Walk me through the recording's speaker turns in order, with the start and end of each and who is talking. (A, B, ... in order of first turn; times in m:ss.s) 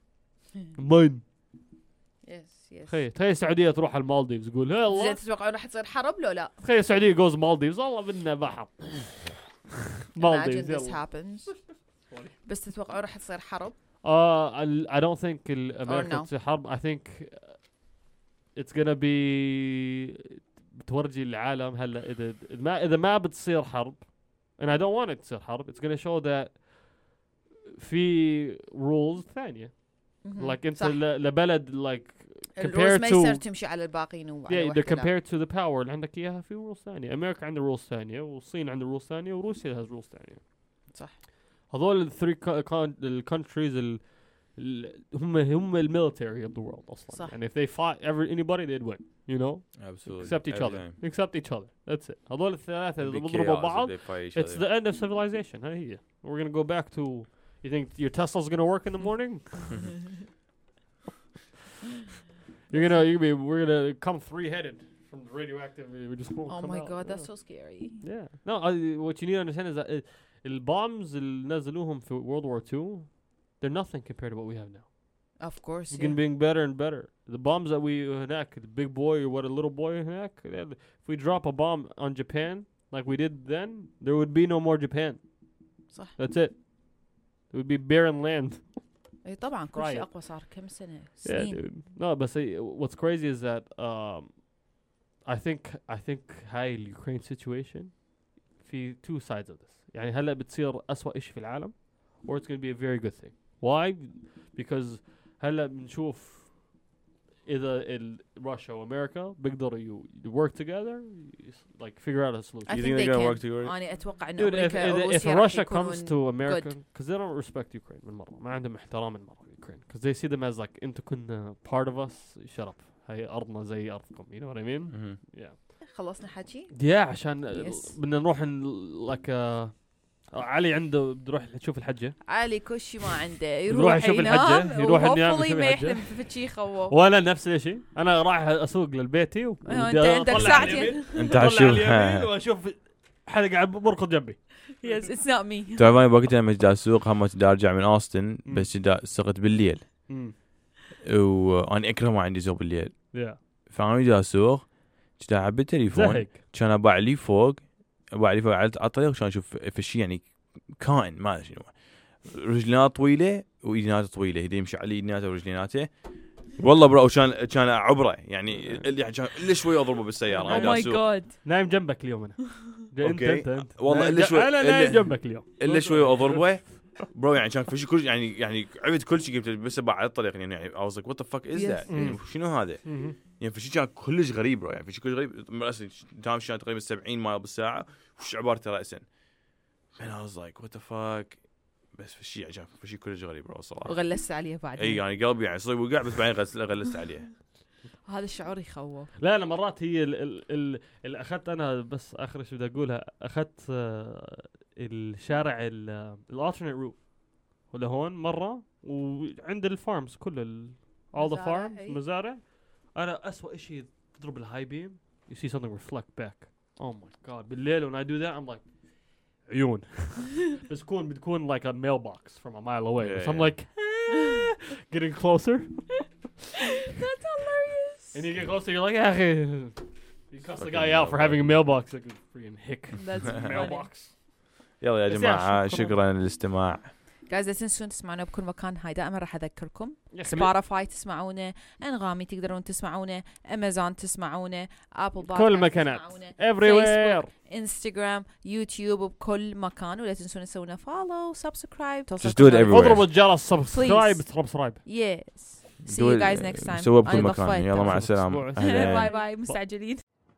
0:00.8-0:01.2 A
0:02.2-0:03.0 B
0:02.9-0:05.2 A
0:04.9-0:06.5 B
0:06.6-0:09.3 A
0:10.1-0:11.5 A
0:10.2-0:11.6 B
0:12.0-0:12.4 A
0:12.4-0:13.7 B
0:14.0-0:17.7 A
0:15.8-0:16.3 B
0:18.5-0:27.2 A
0:27.8-0:33.4 A
0:30.2-0:31.0 B
0:32.5-0:35.1 B
0:34.5-0:40.4 A
0:40.9-0:41.2 B
0:41.7-0:59.7 A
0:47.1-0:47.3 B
0:49.7-0:51.0 C
0:53.0-0:54.6 C
1:02.7-1:14.9 A
1:02.7-1:03.1 B
1:06.5-1:08.0 B
1:15.4-1:16.2 B
1:15.9-1:25.3 A
1:25.9-1:26.1 B
1:26.2-1:28.9 A
1:29.2-1:31.6 B
1:29.7-1:30.1 A
1:31.2-1:34.6 A
1:35.2-1:46.7 A
1:47.4-1:53.1 A
1:52.6-1:56.7 B
1:52.7-1:53.7 C
1:54.4-2:05.6 A
2:04.9-2:05.2 C
2:05.9-2:08.0 B
2:06.7-2:12.2 A
2:12.3-2:17.0 B
2:13.7-2:16.4 A
2:16.9-2:25.2 A
2:19.6-2:21.2 B
2:21.1-2:22.3 C
2:24.8-2:26.0 B
2:25.8-2:30.1 C
2:30.1-2:30.3 A
2:31.0-2:51.1 C
2:33.1-2:33.4 A
2:35.9-2:36.4 A
2:48.5-2:49.0 A
2:50.4-2:56.9 A
2:50.4-2:51.4 B
2:53.0-3:09.0 C
3:01.5-3:02.0 B
3:01.9-3:03.2 A
3:09.9-3:14.0 C
3:13.8-3:15.0 B
3:14.8-3:17.4 C
3:18.0-3:19.1 B
3:19.2-3:46.1 A
3:31.1-3:32.0 B
3:43.0-3:43.6 C
3:46.9-3:48.2 B
3:48.1-3:54.1 A
3:50.5-3:51.6 C
3:52.9-3:53.9 B
3:54.8-3:56.9 C
3:55.1-3:56.0 A
3:57.3-4:20.0 B
4:00.1-4:00.5 A
4:05.3-4:07.3 A
4:12.2-4:13.1 C
4:12.7-4:14.8 A
4:15.8-4:19.2 C
4:17.8-4:19.6 A